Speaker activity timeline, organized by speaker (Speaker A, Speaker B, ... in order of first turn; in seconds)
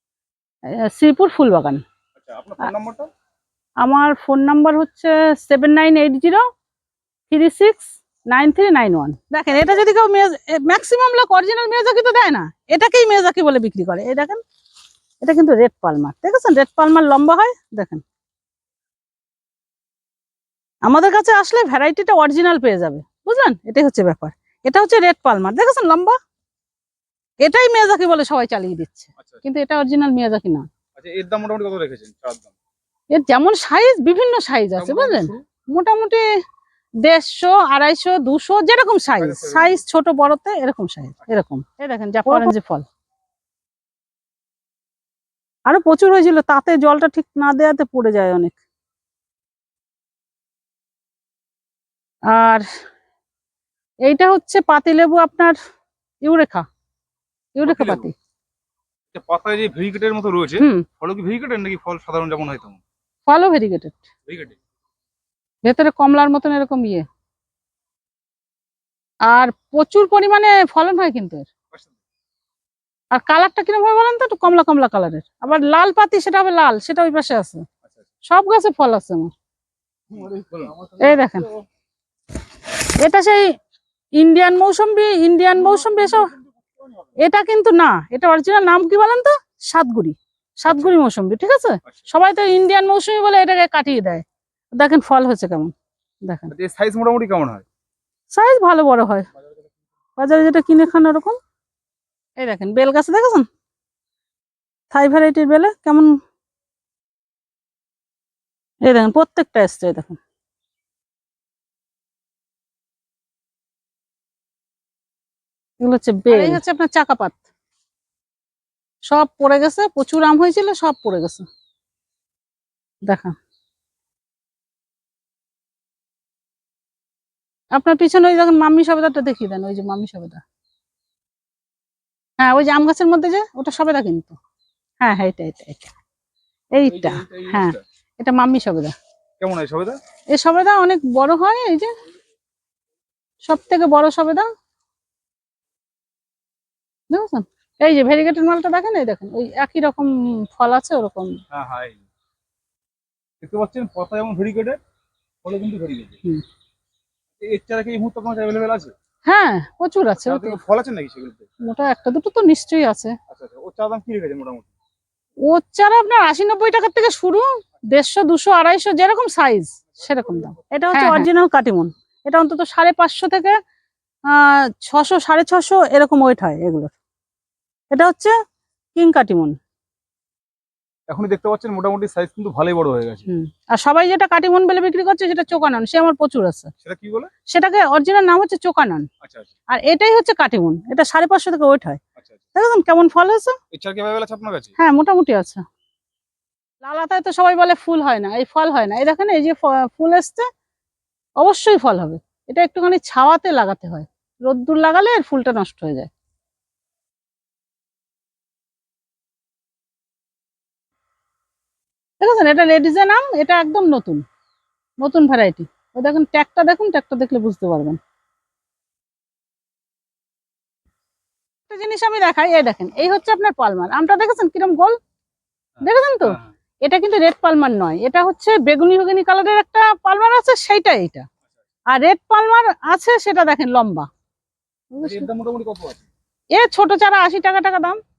Speaker A: 0.8-1.8, 3.8-6.4, 7.3-14.4, 15.2-18.0, 20.9-26.2, 27.4-30.7, 33.1-36.2, 37.0-42.9, 45.7-48.6, 52.3-52.7, 54.0-55.6, 56.2-56.7, 57.5-58.1, 60.6-60.9, 63.3-64.0, 65.6-67.1, 69.3-71.5, 73.1-77.7, 78.3-79.3, 81.0-81.5, 83.0-83.5, 84.2-86.3, 87.2-94.2, 94.8-95.7, 96.3-96.5, 98.3-99.3, 100.2-101.4, 102.4-103.5, 104.9-106.1, 108.8-110.2, 115.8-117.4, 119.0-121.5, 123.0-123.4, 127.7-130.4, 132.4-134.4, 135.0-135.9, 136.7-138.9, 140.3-141.9, 143.4-144.5, 147.1-151.4, 159.3-160.6, 161.6-163.2, 165.4-173.6, 174.3-176.9, 177.9-178.3, 178.9-179.6, 183.3-186.7, 187.5-189.1, 189.7-192.0, 192.6-193.6, 194.8-195.6, 196.8-200.5, 201.4-206.1, 212.2-214.2, 215.0-218.0, 221.7-225.0, 225.8-231.3, 231.9-234.1, 234.9-235.3, 236.5-238.0
Speaker B: 2.2-3.1, 31.0-32.5, 34.8-35.4, 39.2-39.8, 57.6-58.1, 59.1-62.8, 64.3-64.6, 80.1-81.0, 90.7-91.0, 96.5-97.7, 136.8-137.8, 139.4-140.0, 151.5-152.0, 153.4-154.8, 155.4-156.2, 157.4-158.9, 160.2-161.5, 163.3-164.7, 170.0-171.2, 181.1-183.3, 186.8-187.3, 189.2-189.5, 193.7-194.7, 225.8-226.5, 235.0-236.0